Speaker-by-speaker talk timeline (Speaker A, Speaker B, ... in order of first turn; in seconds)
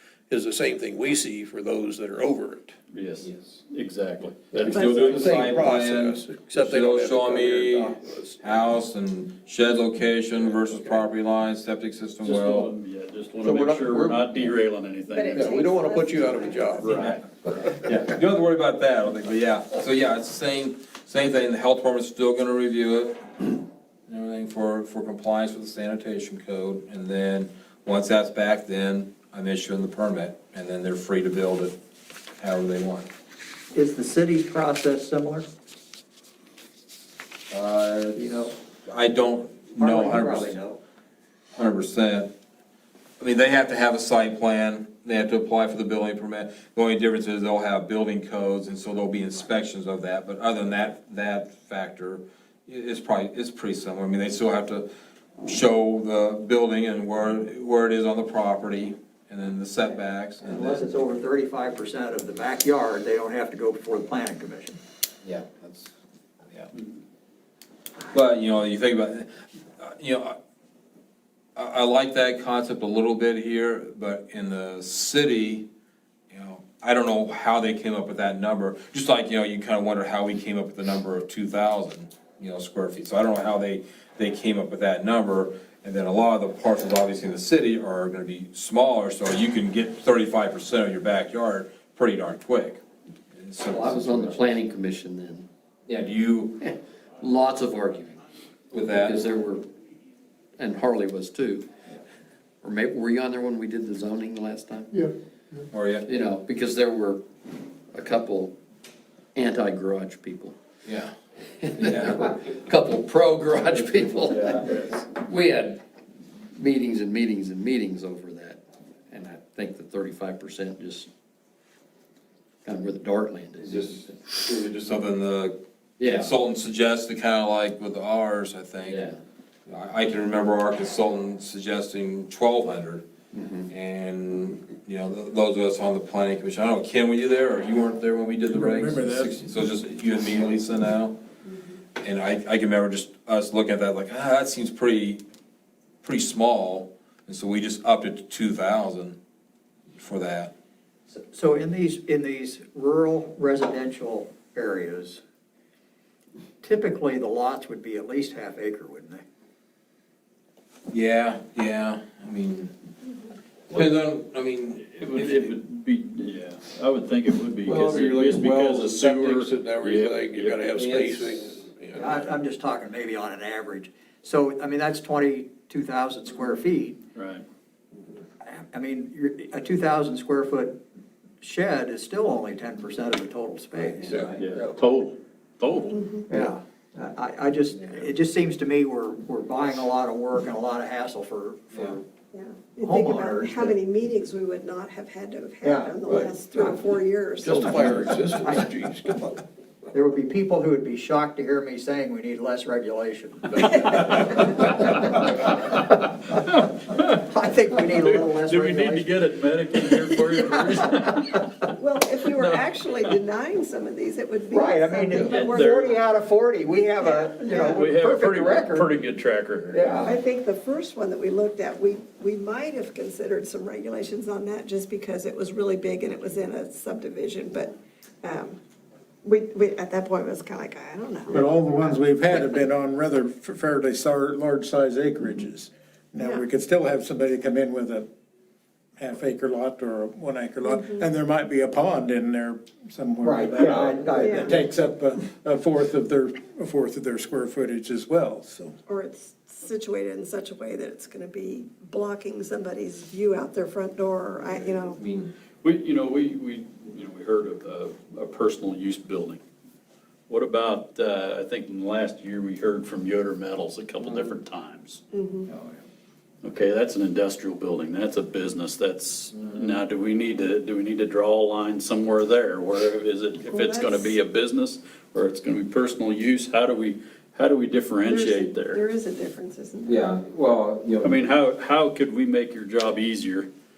Speaker A: 0.3-2.8, 4.5-8.7, 13.4-14.5, 15.3-17.9, 168.8-172.4, 184.0-184.7, 197.4-199.4
Speaker B: 2.9-4.9, 12.2-15.4, 16.8-17.2, 164.9-170.6, 177.1-177.4, 184.4-186.0, 205.6-207.0, 207.8-211.6, 212.3-212.7, 215.2-216.0, 217.4-220.1, 255.6-259.4, 260.3-265.0, 266.4-278.8, 281.0-283.5
Speaker C: 3.2-3.5, 4.6-12.7, 16.8-31.8, 32.4-33.1, 37.5-38.2, 38.9-40.5, 41.5-42.3, 43.2-54.9, 55.4-60.8, 65.2-65.9, 68.1-70.4, 71.5-75.7, 76.3-92.8, 93.3-94.5, 95.9-96.6, 98.7-99.2, 105.7-106.1, 110.8-111.1, 111.7-112.3, 113.9-115.0, 123.6-129.1, 129.7-133.0, 133.7-141.2, 142.0-145.2, 146.0-149.2, 149.9-150.5, 160.9-162.7, 163.7-165.5, 167.6-168.9, 170.5-171.3, 254.6-255.3, 279.8-281.2
Speaker D: 15.1-16.8, 185.9-186.3, 192.3-197.9, 211.7-215.9, 217.0-217.3, 220.0-228.6, 229.2-232.0, 240.7-241.0, 244.2-244.5, 248.9-255.0, 265.1-265.5, 273.4-274.2, 278.0-280.1
Speaker E: 33.7-35.5, 38.1-38.5, 39.8-40.8, 60.4-64.8, 151.1-155.2, 156.6-159.2, 171.9-177.0, 178.4-180.8, 181.4-184.4, 186.3-192.0, 192.8-193.8, 195.6-196.0, 199.9-205.8, 206.9-209.1, 214.5-218.9, 219.7-220.2, 243.2-244.6
Speaker F: 93.7-95.5, 96.6-98.2, 98.9-99.7, 100.6-101.7, 102.6-105.0, 106.0-107.2, 107.9-108.6, 109.3-110.6, 111.6-115.8, 116.5-121.1, 122.6-124.2, 126.0-126.3, 128.8-129.2, 133.3-133.7
Speaker G: 138.5-139.5, 231.3-238.1, 239.0-248.7